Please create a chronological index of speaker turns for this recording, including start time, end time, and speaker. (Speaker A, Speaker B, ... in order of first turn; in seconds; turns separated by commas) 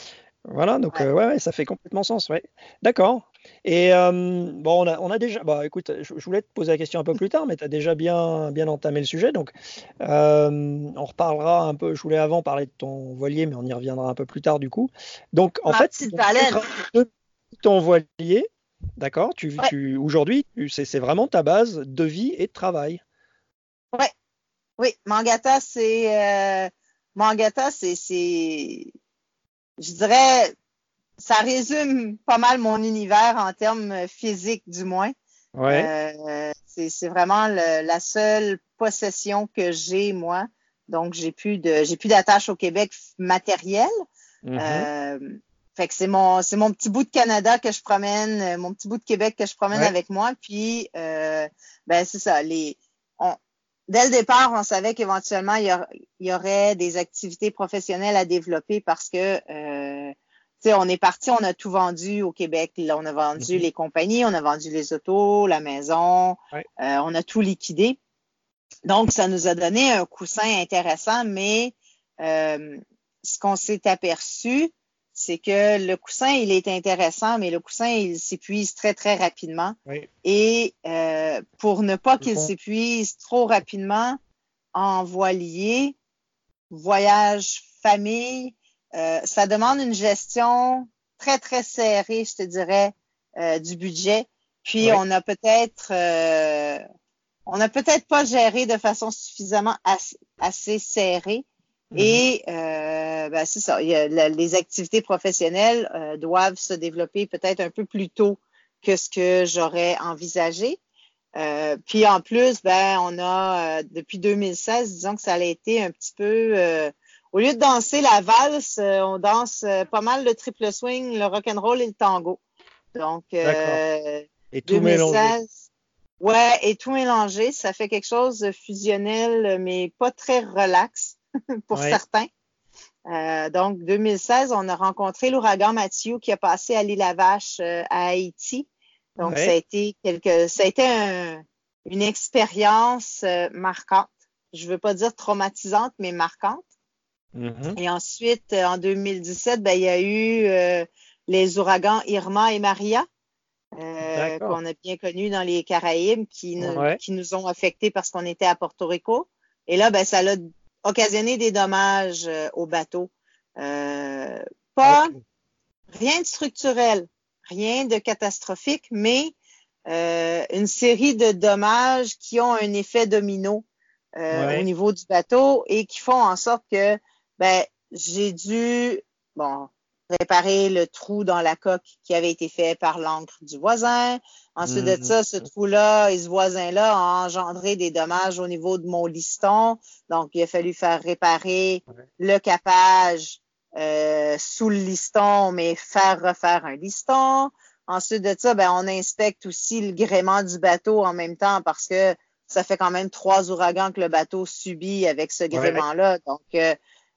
Speaker A: 0.5-23.0, Speaker B: 15.7-16.6, Speaker B: 24.8-28.9, Speaker B: 29.8-30.5, Speaker B: 31.2-35.1, Speaker A: 35.5-35.9, Speaker B: 35.7-43.9, Speaker A: 44.4-44.9, Speaker B: 44.6-53.4, Speaker B: 53.9-68.0, Speaker A: 63.4-63.6, Speaker B: 68.8-84.2, Speaker A: 82.2-82.5, Speaker B: 84.7-85.9, Speaker B: 86.7-96.8, Speaker B: 97.5-101.4, Speaker A: 101.9-102.2, Speaker B: 102.0-110.8, Speaker B: 111.4-122.4, Speaker B: 122.9-125.5, Speaker A: 123.4-123.8, Speaker A: 124.5-125.3, Speaker B: 126.2-131.2, Speaker B: 131.7-132.3, Speaker A: 131.7-132.0, Speaker B: 133.1-138.7, Speaker B: 139.2-146.6, Speaker A: 139.2-139.6, Speaker A: 147.3-147.8, Speaker B: 147.8-153.1, Speaker B: 153.8-165.1, Speaker A: 154.1-154.6, Speaker A: 156.6-157.0, Speaker A: 164.8-165.2, Speaker B: 165.9-169.3, Speaker B: 169.9-173.6, Speaker B: 174.2-206.8, Speaker A: 174.3-174.7, Speaker A: 184.7-185.1, Speaker A: 205.5-205.8